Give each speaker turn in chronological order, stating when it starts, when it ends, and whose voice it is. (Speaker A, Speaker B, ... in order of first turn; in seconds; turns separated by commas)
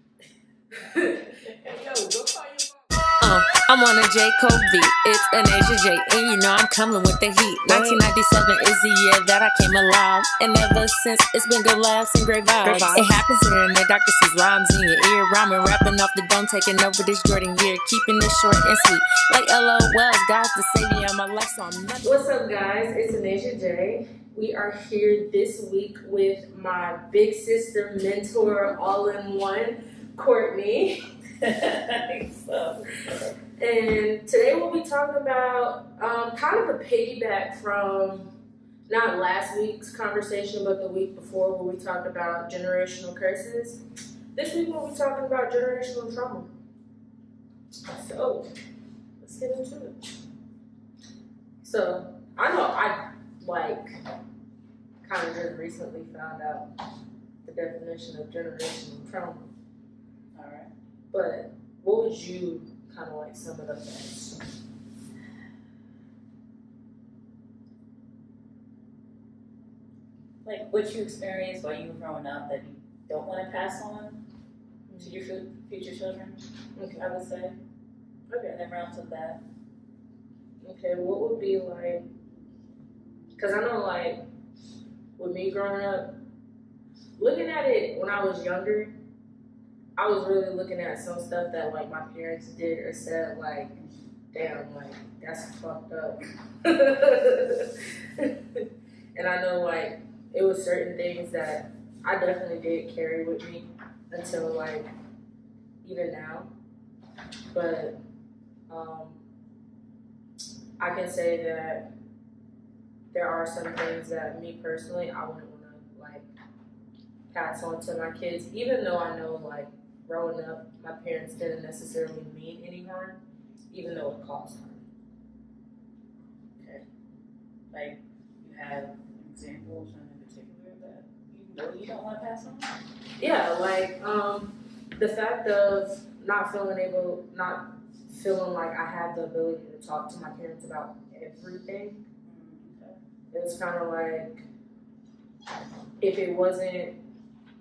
Speaker A: 0.7-6.1, Speaker B: 3.2-4.5, Speaker B: 5.3-22.1, Speaker A: 6.7-7.0, Speaker A: 7.5-8.9, Speaker A: 9.5-14.9, Speaker A: 16.4-17.4, Speaker A: 18.3-18.8, Speaker A: 20.1-21.4, Speaker A: 22.0-31.0, Speaker C: 31.4-33.3, Speaker A: 33.6-38.3, Speaker A: 38.9-43.8, Speaker A: 44.3-46.5, Speaker A: 47.9-48.5, Speaker A: 49.2-49.9, Speaker A: 51.6-54.0, Speaker A: 55.0-56.7, Speaker A: 57.4-59.5, Speaker C: 60.3-60.7, Speaker A: 61.1-64.4, Speaker C: 70.4-74.2, Speaker A: 74.9-75.2, Speaker C: 75.0-76.4, Speaker A: 76.8-77.0, Speaker C: 76.9-77.5, Speaker A: 78.3-78.6, Speaker C: 78.5-79.4, Speaker A: 80.6-82.0, Speaker A: 83.4-84.2, Speaker A: 85.2-86.1, Speaker A: 87.2-88.9, Speaker A: 90.0-93.7, Speaker A: 94.3-98.6, Speaker A: 99.1-104.9, Speaker A: 105.8-106.5, Speaker A: 107.5-108.0, Speaker A: 108.7-109.2, Speaker A: 110.8-111.9, Speaker A: 113.1-116.2, Speaker A: 117.3-123.2, Speaker A: 123.7-124.8, Speaker C: 126.6-126.8, Speaker C: 127.7-132.7, Speaker A: 133.2-142.0, Speaker C: 142.2-143.0, Speaker A: 143.3-144.4, Speaker A: 146.0-146.9